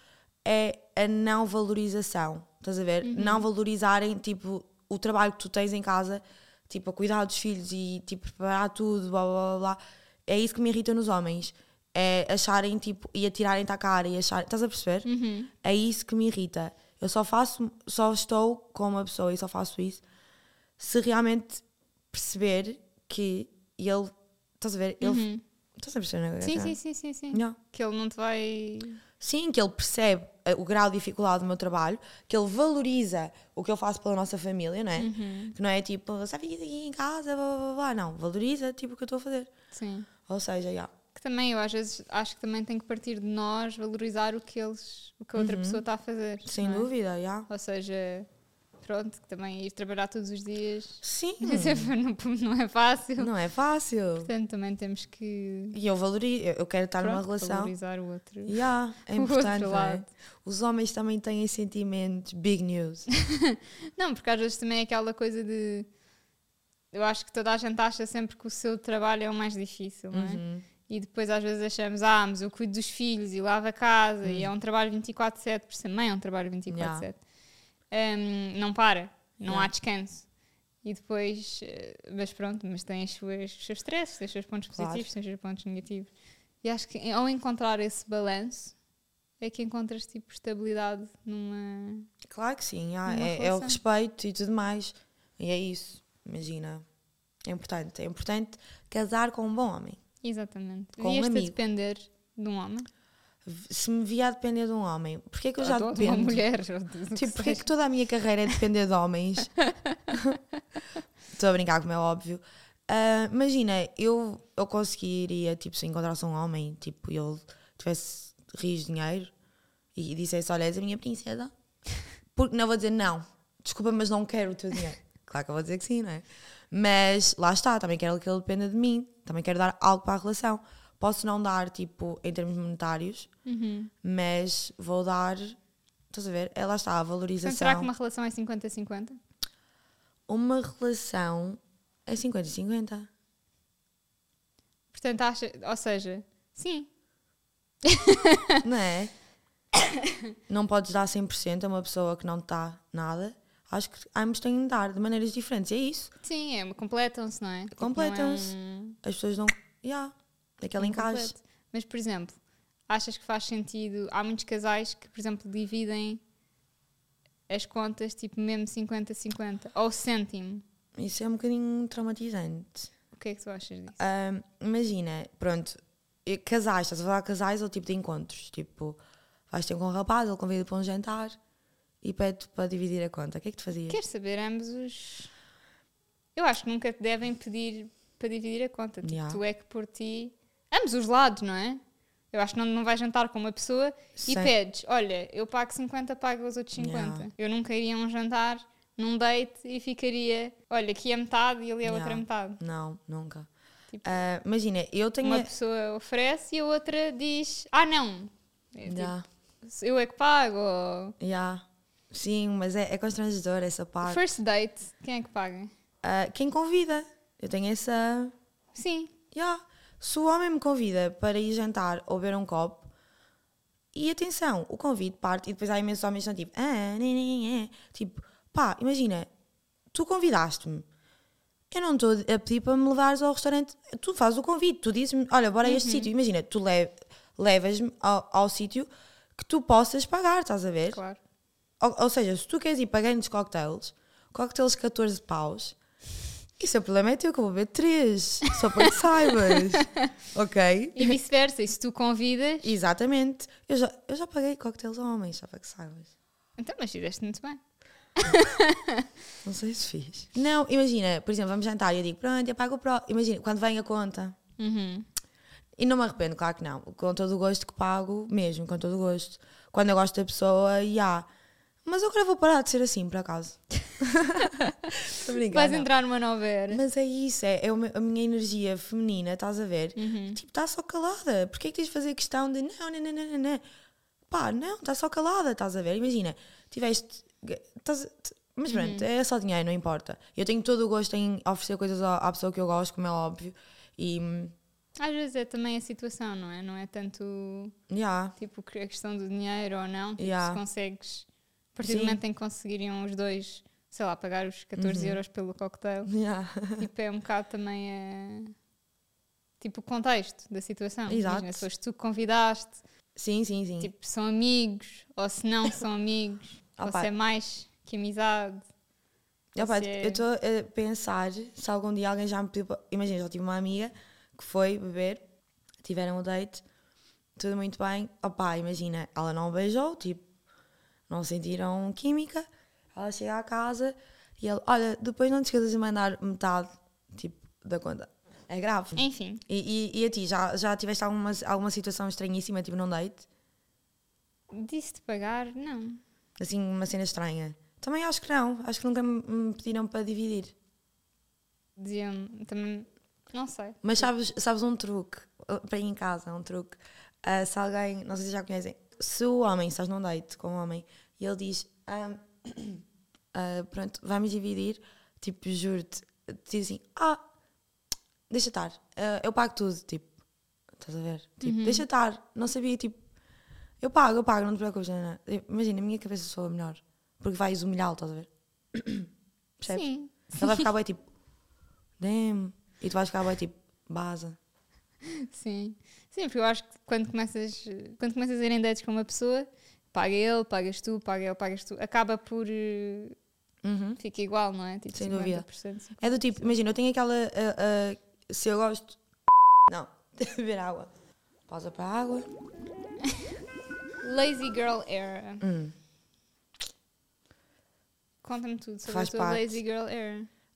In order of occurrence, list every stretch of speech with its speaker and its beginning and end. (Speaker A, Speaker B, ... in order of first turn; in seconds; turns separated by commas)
Speaker A: 0.4-15.1, Speaker B: 3.0-3.5, Speaker B: 15.1-15.5, Speaker A: 15.6-20.0, Speaker A: 20.8-26.8, Speaker B: 25.0-25.4, Speaker B: 26.4-29.0, Speaker A: 27.3-27.6, Speaker A: 29.2-39.5, Speaker B: 35.0-35.5, Speaker B: 39.7-40.1, Speaker A: 40.3-40.9, Speaker B: 41.1-46.9, Speaker A: 45.4-45.8, Speaker A: 46.5-47.5, Speaker B: 47.5-48.3, Speaker B: 48.8-53.3, Speaker A: 51.0-51.9, Speaker A: 53.2-54.3, Speaker B: 54.2-55.8, Speaker A: 55.7-57.7, Speaker B: 57.0-60.1, Speaker A: 58.5-63.1, Speaker B: 63.1-65.9, Speaker B: 66.9-77.2, Speaker A: 70.1-70.7, Speaker A: 74.2-74.5, Speaker A: 76.7-77.1, Speaker B: 77.9-80.3, Speaker B: 80.8-86.1, Speaker A: 84.8-85.1, Speaker B: 86.6-88.7, Speaker B: 89.4-92.1, Speaker A: 92.3-96.8, Speaker B: 93.1-93.8, Speaker A: 97.5-100.0, Speaker B: 100.2-102.9, Speaker A: 101.0-101.6, Speaker A: 103.5-106.5, Speaker B: 105.6-107.7, Speaker A: 107.2-109.5, Speaker B: 109.6-110.2, Speaker A: 110.1-110.4, Speaker A: 111.3-119.3, Speaker A: 120.0-121.5, Speaker A: 122.3-133.3, Speaker B: 133.5-133.9, Speaker A: 134.0-135.6, Speaker A: 136.1-137.9, Speaker B: 137.4-139.2, Speaker A: 140.3-143.1, Speaker B: 144.9-146.9, Speaker B: 147.8-148.6, Speaker A: 148.6-149.1, Speaker A: 150.5-156.1, Speaker B: 156.2-159.0, Speaker A: 157.8-161.3, Speaker B: 160.8-162.4, Speaker B: 162.9-166.2, Speaker B: 167.5-170.6, Speaker A: 171.0-172.9, Speaker B: 173.1-174.0, Speaker A: 174.0-181.4, Speaker A: 182.0-184.0, Speaker B: 183.9-185.3, Speaker B: 186.4-191.8, Speaker A: 189.0-189.4, Speaker B: 192.3-202.6, Speaker A: 194.2-194.5, Speaker A: 196.8-197.3, Speaker A: 201.8-203.5, Speaker B: 203.9-204.2, Speaker A: 204.0-205.5, Speaker B: 205.2-211.2, Speaker A: 208.9-209.2, Speaker A: 211.2-214.3, Speaker B: 214.0-215.7, Speaker A: 216.0-218.3, Speaker B: 218.8-219.1, Speaker A: 219.3-222.9, Speaker A: 223.9-229.3, Speaker A: 229.9-230.9, Speaker A: 231.7-241.0, Speaker B: 235.7-236.1, Speaker B: 240.9-241.2, Speaker A: 241.8-245.8, Speaker A: 246.6-251.2, Speaker B: 249.4-250.0, Speaker B: 251.0-252.8, Speaker A: 252.6-256.1, Speaker B: 256.6-257.6, Speaker B: 258.2-259.1, Speaker A: 259.4-264.4, Speaker B: 264.6-265.1, Speaker A: 265.8-271.3, Speaker A: 271.9-275.9, Speaker B: 275.4-276.8, Speaker A: 276.7-283.6, Speaker B: 280.0-280.4, Speaker A: 284.3-294.6, Speaker B: 288.7-289.1, Speaker B: 295.0-297.8, Speaker A: 297.9-298.4, Speaker B: 298.4-306.1, Speaker A: 300.2-300.6, Speaker A: 301.8-302.2, Speaker A: 304.8-305.2, Speaker A: 306.1-306.9, Speaker B: 306.8-308.5, Speaker B: 309.6-312.8, Speaker A: 311.1-311.7, Speaker A: 313.2-313.9, Speaker B: 313.8-318.6, Speaker A: 316.8-317.1, Speaker A: 319.6-325.2, Speaker B: 319.6-320.2, Speaker A: 325.8-326.6, Speaker A: 327.4-330.2, Speaker A: 331.1-343.3, Speaker B: 339.0-339.4, Speaker B: 344.5-346.0, Speaker A: 346.4-350.5, Speaker B: 351.8-354.1, Speaker A: 353.8-367.2, Speaker A: 368.3-370.1, Speaker A: 370.8-373.0, Speaker B: 371.4-371.9, Speaker A: 373.8-379.9, Speaker B: 379.7-380.7, Speaker A: 380.4-381.0, Speaker A: 382.0-384.4, Speaker B: 385.0-393.2, Speaker A: 393.6-394.0, Speaker B: 394.0-396.6, Speaker A: 394.9-395.5, Speaker A: 396.0-399.0, Speaker A: 399.7-400.9, Speaker A: 401.5-402.3, Speaker B: 404.0-405.4, Speaker A: 405.4-405.8, Speaker B: 408.2-410.3, Speaker A: 408.9-409.6